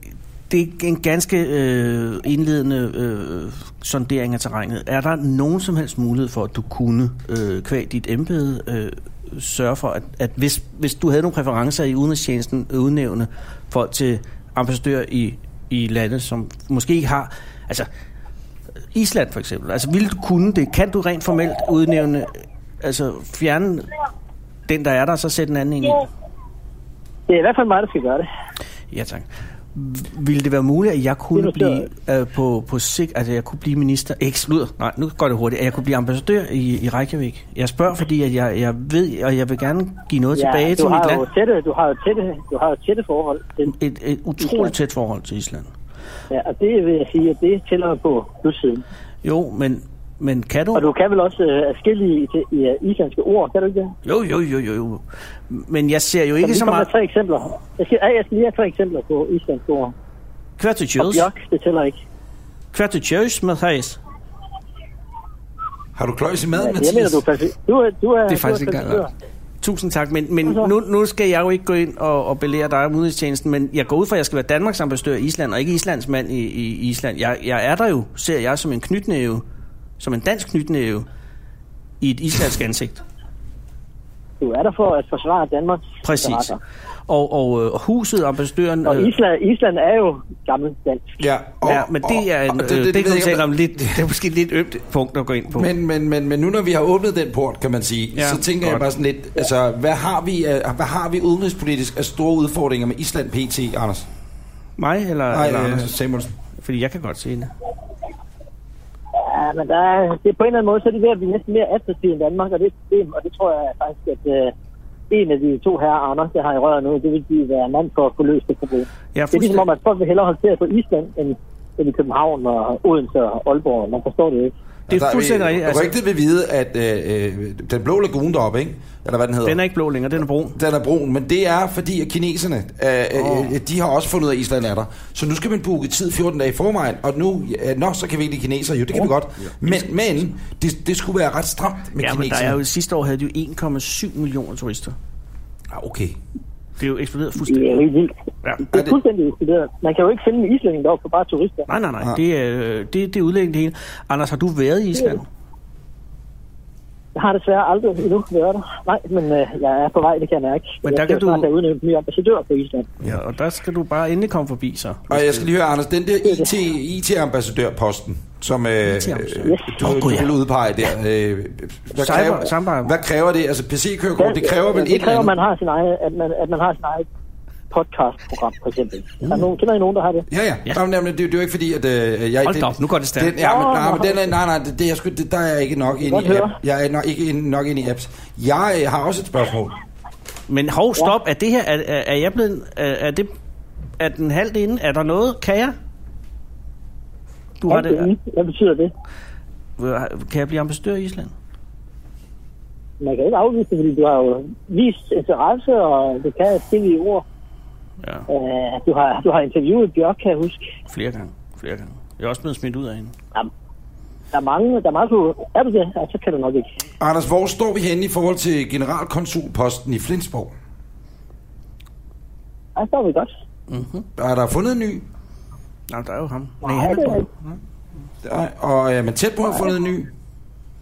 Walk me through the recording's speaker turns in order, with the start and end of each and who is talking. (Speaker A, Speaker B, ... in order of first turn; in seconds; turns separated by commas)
Speaker A: 0.5-17.9, Speaker A: 18.9-23.9, Speaker A: 24.7-26.1, Speaker B: 27.3-28.3, Speaker A: 28.9-41.2, Speaker B: 31.4-31.9, Speaker B: 40.4-43.7, Speaker A: 43.7-45.7, Speaker B: 44.4-44.7, Speaker B: 46.3-48.8, Speaker A: 49.2-50.9, Speaker B: 50.7-53.9, Speaker A: 54.0-56.9, Speaker B: 56.4-59.9, Speaker A: 60.6-61.3, Speaker B: 61.0-62.0, Speaker A: 62.7-64.0, Speaker C: 66.0-67.2, Speaker B: 66.5-69.1, Speaker A: 68.3-69.0, Speaker A: 69.6-79.4, Speaker A: 80.0-81.0, Speaker A: 82.0-83.0, Speaker B: 84.4-86.6, Speaker A: 86.0-86.5, Speaker A: 87.1-89.1, Speaker B: 88.9-91.2, Speaker C: 91.2-94.0, Speaker A: 91.6-95.7, Speaker C: 95.5-104.1, Speaker A: 98.2-98.8, Speaker A: 104.8-105.9, Speaker C: 105.3-106.3, Speaker A: 106.6-107.5, Speaker B: 109.2-114.5, Speaker B: 115.1-124.5, Speaker A: 119.1-119.7, Speaker C: 124.9-129.6, Speaker A: 124.9-126.0, Speaker A: 129.4-130.6, Speaker C: 130.5-142.6, Speaker A: 133.2-133.5, Speaker A: 139.4-139.9, Speaker A: 142.0-145.0, Speaker C: 145.7-146.2, Speaker A: 146.8-147.8, Speaker B: 147.5-151.7, Speaker A: 151.7-155.3, Speaker B: 157.1-162.9, Speaker A: 160.8-161.5, Speaker A: 163.0-165.5, Speaker C: 165.1-175.3, Speaker A: 168.8-170.3, Speaker B: 169.4-170.0, Speaker A: 172.0-172.9, Speaker B: 174.2-177.1, Speaker B: 177.7-180.3, Speaker A: 179.2-179.5, Speaker C: 180.3-189.8, Speaker A: 182.4-183.4, Speaker B: 183.4-184.2, Speaker B: 186.0-186.5, Speaker A: 190.5-193.3, Speaker A: 194.0-195.8, Speaker A: 197.6-198.1, Speaker B: 197.7-198.9, Speaker A: 199.8-201.3, Speaker B: 203.0-207.2, Speaker B: 208.3-210.6, Speaker A: 210.9-213.1, Speaker B: 214.3-216.7, Speaker C: 217.0-220.5, Speaker B: 222.8-223.3, Speaker A: 223.7-224.1, Speaker C: 224.2-225.1, Speaker A: 225.9-227.6, Speaker B: 226.6-227.2, Speaker C: 228.2-230.1